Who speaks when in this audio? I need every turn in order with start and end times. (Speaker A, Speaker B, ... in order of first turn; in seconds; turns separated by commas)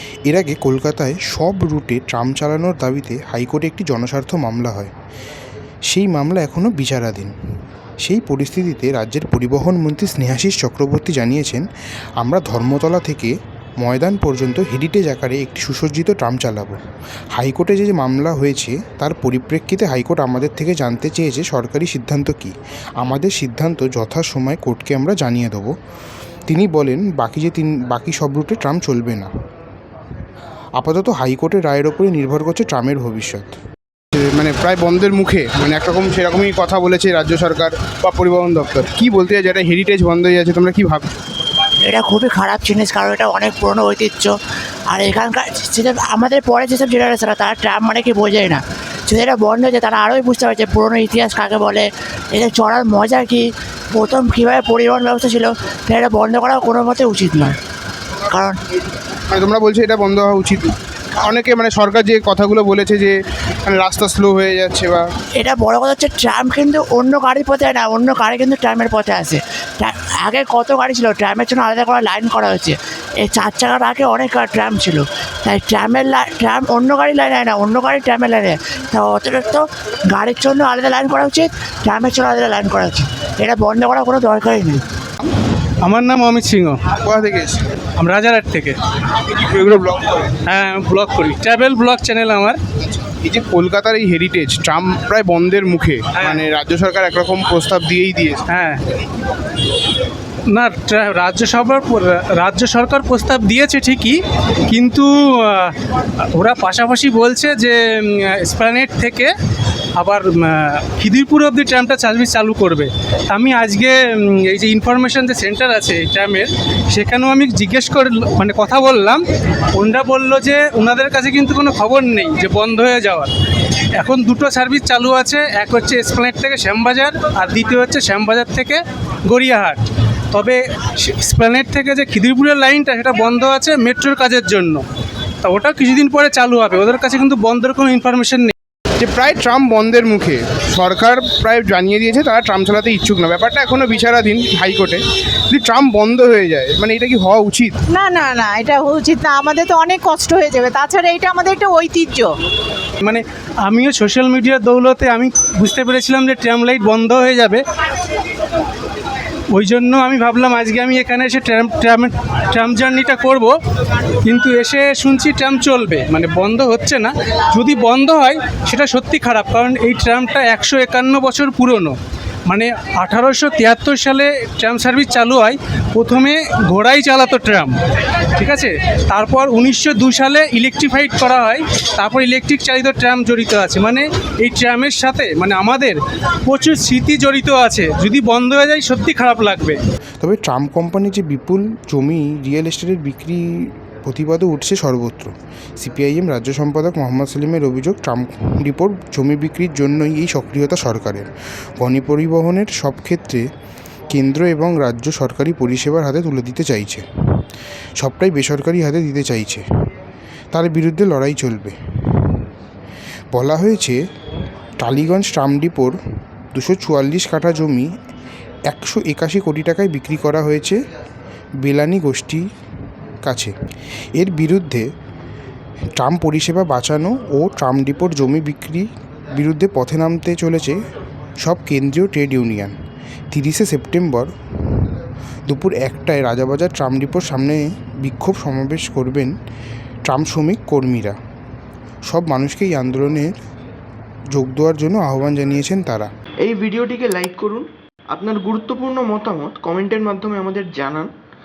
Speaker A: 0.3-4.9, Speaker A: 5.9-7.3, Speaker A: 8.0-11.7, Speaker A: 12.2-16.8, Speaker A: 17.3-25.8, Speaker A: 26.5-29.3, Speaker A: 30.8-33.6, Speaker B: 34.1-41.1, Speaker C: 41.8-44.3, Speaker C: 44.9-57.5, Speaker C: 58.3-58.6, Speaker B: 59.3-65.0, Speaker C: 65.4-84.8, Speaker D: 85.8-86.8, Speaker B: 87.0-87.8, Speaker D: 88.0-88.8, Speaker B: 89.4-90.3, Speaker D: 90.4-92.6, Speaker B: 93.0-98.4, Speaker D: 96.2-96.5, Speaker D: 98.5-98.8, Speaker D: 100.5-104.2, Speaker D: 104.7-105.8, Speaker D: 106.3-109.3, Speaker D: 110.0-119.2, Speaker D: 119.7-123.3, Speaker D: 124.0-134.8, Speaker D: 135.4-138.5, Speaker B: 139.0-147.8, Speaker E: 147.9-152.3, Speaker D: 153.0-157.6, Speaker D: 159.5-163.5, Speaker D: 164.2-171.9, Speaker D: 172.5-177.8, Speaker D: 178.4-189.8, Speaker A: 190.2-203.4, Speaker A: 204.1-207.0, Speaker A: 208.0-209.6, Speaker A: 210.5-212.3, Speaker A: 213.3-214.0, Speaker A: 214.8-216.0, Speaker A: 216.5-217.9, Speaker A: 218.7-220.8, Speaker A: 221.6-222.4, Speaker A: 223.2-223.5, Speaker A: 224.2-224.9, Speaker A: 226.0-230.8, Speaker A: 231.4-232.7, Speaker A: 233.3-234.9, Speaker A: 235.5-239.3, Speaker A: 240.1-241.2, Speaker A: 242.1-243.3, Speaker A: 244.3-246.1, Speaker F: 246.4-251.1